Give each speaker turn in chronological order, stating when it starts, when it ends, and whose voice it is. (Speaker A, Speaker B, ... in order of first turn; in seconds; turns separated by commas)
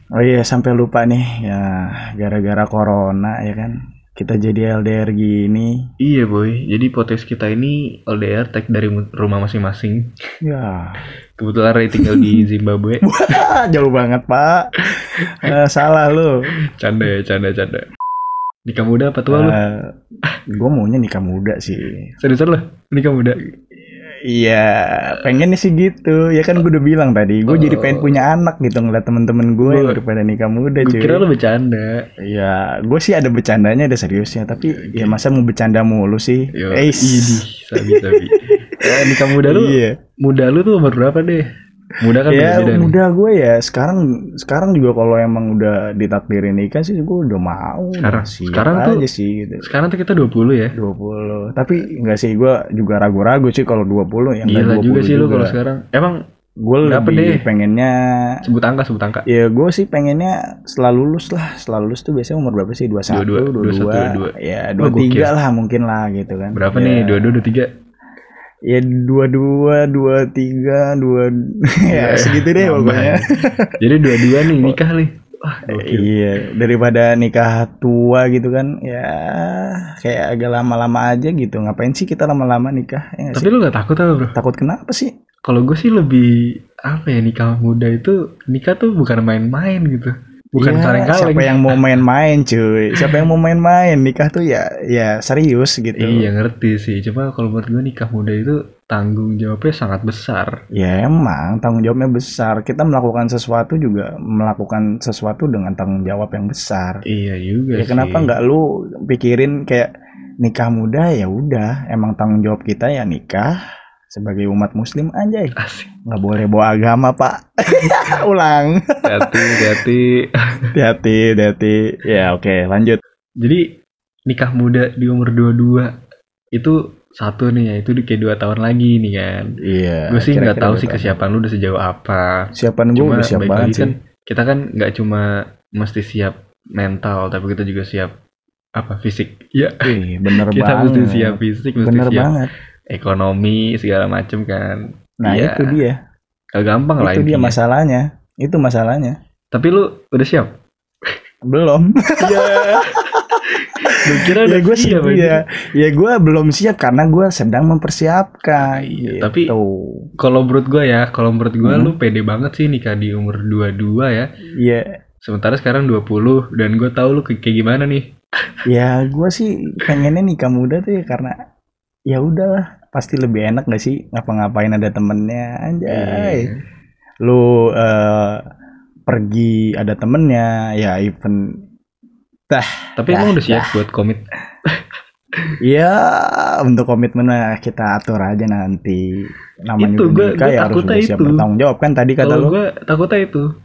Speaker A: 0.2-5.7, Speaker B: 6.0-10.1, Speaker A: 10.4-11.0, Speaker B: 11.4-13.1, Speaker A: 12.0-12.4, Speaker A: 13.0-16.3, Speaker B: 15.2-15.6, Speaker B: 16.8-17.9, Speaker B: 18.7-19.6, Speaker A: 19.3-19.9, Speaker A: 20.5-22.0, Speaker B: 22.2-23.4, Speaker A: 23.9-31.2, Speaker B: 27.5-28.2, Speaker B: 29.6-30.0, Speaker B: 30.8-32.0, Speaker A: 32.3-40.0, Speaker B: 34.6-35.2, Speaker B: 36.5-41.5, Speaker B: 42.0-43.0, Speaker A: 42.3-49.7, Speaker B: 48.0-49.0, Speaker B: 49.6-50.7, Speaker A: 50.8-55.5, Speaker B: 54.5-56.2, Speaker A: 56.6-58.0, Speaker B: 56.8-57.5, Speaker B: 58.4-59.2, Speaker A: 59.3-67.5, Speaker B: 63.1-65.3, Speaker B: 66.5-67.7, Speaker A: 68.7-74.8, Speaker B: 71.9-76.1, Speaker A: 75.7-83.5, Speaker B: 83.3-84.4, Speaker A: 84.3-85.1, Speaker B: 85.5-86.3, Speaker B: 86.9-91.9, Speaker A: 90.6-96.3, Speaker B: 93.0-93.2, Speaker B: 96.0-100.5, Speaker A: 100.8-107.0, Speaker B: 107.1-108.3, Speaker A: 107.8-109.9, Speaker A: 110.4-113.5, Speaker A: 114.1-115.5, Speaker B: 115.6-115.9, Speaker A: 116.1-119.3, Speaker B: 119.0-120.1, Speaker A: 120.7-123.0, Speaker B: 124.3-125.9, Speaker B: 126.6-129.5, Speaker A: 129.6-131.2, Speaker B: 130.1-135.3, Speaker A: 132.6-133.9, Speaker B: 135.8-138.1, Speaker B: 138.8-142.3, Speaker A: 139.8-142.5, Speaker B: 142.9-145.8, Speaker A: 145.2-146.0, Speaker B: 146.6-147.6, Speaker A: 147.0-149.2, Speaker B: 149.5-150.5, Speaker A: 151.5-160.0, Speaker B: 152.2-153.1, Speaker B: 153.6-155.4, Speaker B: 158.6-159.5, Speaker B: 160.2-164.3, Speaker A: 161.7-161.9, Speaker B: 165.3-168.0, Speaker A: 168.7-171.3, Speaker A: 172.1-176.5, Speaker B: 175.9-176.6, Speaker A: 177.2-178.4, Speaker A: 179.1-181.4, Speaker A: 182.5-183.7, Speaker B: 183.0-184.2, Speaker A: 185.6-192.5, Speaker B: 189.8-191.5, Speaker B: 192.2-193.5